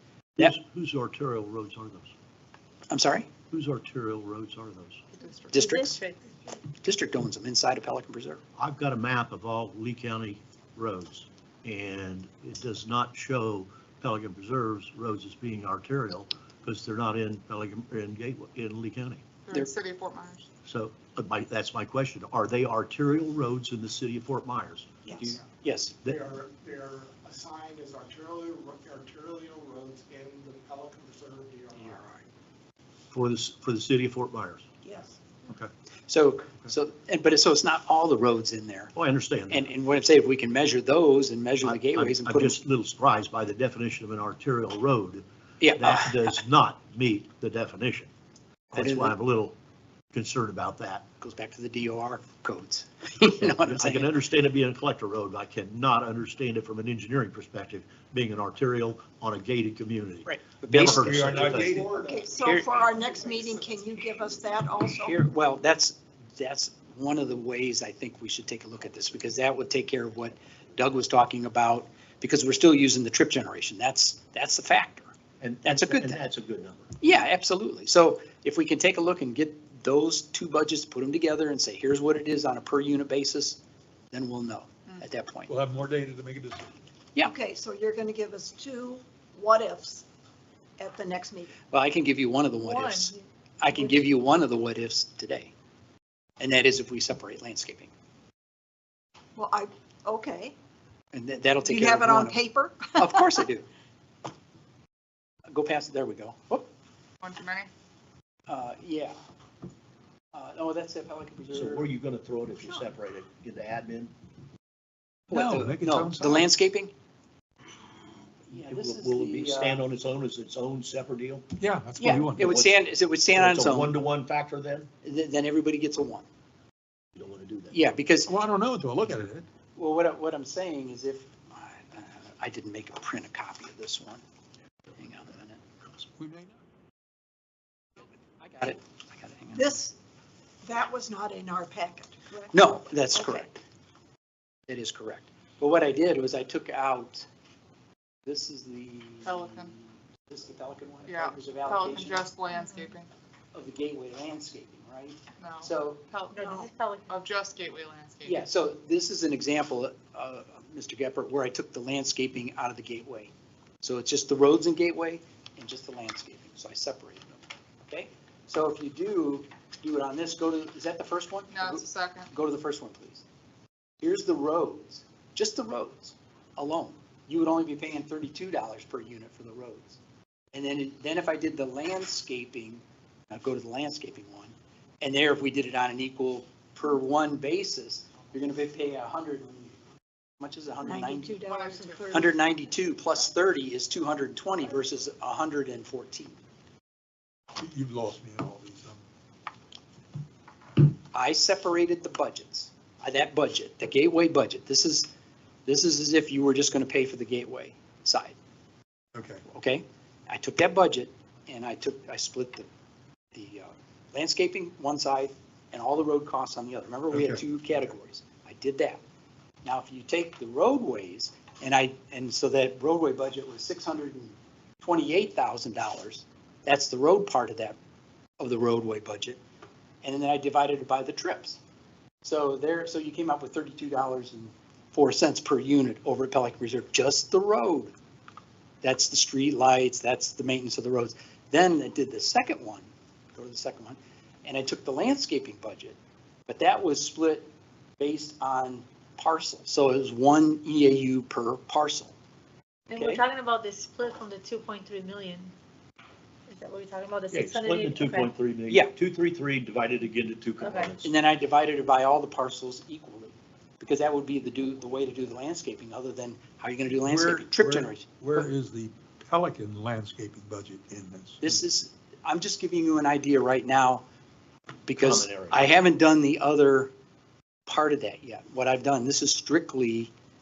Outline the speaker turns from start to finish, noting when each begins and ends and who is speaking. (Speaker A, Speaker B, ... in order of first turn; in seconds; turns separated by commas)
Speaker A: 0.4-2.1, Speaker B: 2.9-3.3, Speaker A: 3.5-5.0, Speaker C: 5.2-5.7, Speaker D: 5.5-6.3, Speaker B: 5.5-6.0, Speaker B: 6.8-8.4, Speaker A: 8.6-19.2, Speaker C: 19.5-20.5, Speaker A: 20.6-25.4, Speaker E: 25.1-25.4, Speaker B: 25.5-25.9, Speaker F: 26.1-32.2, Speaker B: 31.8-32.2, Speaker A: 33.1-34.6, Speaker E: 34.8-35.2, Speaker B: 36.1-38.9, Speaker A: 39.0-39.7, Speaker B: 39.5-42.6, Speaker A: 41.6-45.2, Speaker B: 45.6-46.4, Speaker A: 45.8-48.1, Speaker A: 48.7-49.6, Speaker B: 48.8-49.2, Speaker A: 50.1-51.0, Speaker B: 51.2-54.1, Speaker A: 53.4-61.9, Speaker B: 60.3-61.7, Speaker G: 60.7-62.1, Speaker F: 61.4-63.7, Speaker E: 61.9-65.2, Speaker B: 62.4-62.8, Speaker B: 65.0-75.1, Speaker A: 75.4-77.0, Speaker B: 75.7-76.2, Speaker B: 77.0-83.6, Speaker B: 84.1-85.5, Speaker G: 85.5-86.8, Speaker E: 87.2-90.0, Speaker E: 90.8-91.5, Speaker B: 91.7-95.5, Speaker D: 92.6-93.3, Speaker B: 96.4-97.9, Speaker E: 99.3-100.5, Speaker B: 101.1-102.4, Speaker E: 101.6-103.3, Speaker B: 102.9-103.7, Speaker B: 105.5-106.7, Speaker C: 107.2-107.7, Speaker B: 108.5-109.2, Speaker B: 110.3-111.9, Speaker A: 111.5-114.1, Speaker B: 115.3-116.9, Speaker G: 115.3-116.5, Speaker B: 118.5-119.8, Speaker A: 118.5-121.5, Speaker G: 121.6-122.5, Speaker B: 122.0-124.0, Speaker A: 122.1-124.9, Speaker B: 125.0-126.3, Speaker A: 127.2-128.0, Speaker B: 127.7-128.3, Speaker G: 128.3-129.5, Speaker B: 129.8-134.2, Speaker B: 134.9-135.6, Speaker G: 136.2-136.6, Speaker B: 138.4-139.8, Speaker E: 139.6-139.9, Speaker E: 140.6-142.5, Speaker B: 142.5-143.6, Speaker E: 143.1-143.4, Speaker B: 144.7-147.3, Speaker B: 148.2-152.3, Speaker C: 149.2-149.8, Speaker C: 151.1-153.1, Speaker D: 152.5-152.9, Speaker B: 153.5-156.0, Speaker C: 155.4-156.5, Speaker D: 156.3-157.1, Speaker C: 157.1-158.5, Speaker B: 158.2-173.2, Speaker C: 171.5-172.3, Speaker B: 174.0-180.0, Speaker B: 180.5-189.8, Speaker B: 190.4-191.4, Speaker E: 190.8-192.3, Speaker C: 191.5-192.1, Speaker B: 192.1-196.4, Speaker G: 197.6-199.0, Speaker B: 201.1-205.1, Speaker B: 205.7-208.4, Speaker G: 209.2-209.4, Speaker B: 209.5-212.7, Speaker B: 213.3-219.0, Speaker A: 217.1-217.4, Speaker B: 219.6-227.8, Speaker B: 228.4-229.4, Speaker B: 230.0-231.6, Speaker B: 232.2-237.9, Speaker B: 238.8-252.2, Speaker D: 252.9-255.5, Speaker B: 252.9-253.2, Speaker D: 256.5-258.3, Speaker A: 257.3-261.1, Speaker D: 260.6-260.9, Speaker B: 261.0-268.5, Speaker G: 266.9-271.6, Speaker B: 271.4-274.0, Speaker B: 274.9-276.9, Speaker A: 275.0-275.7, Speaker B: 277.7-280.1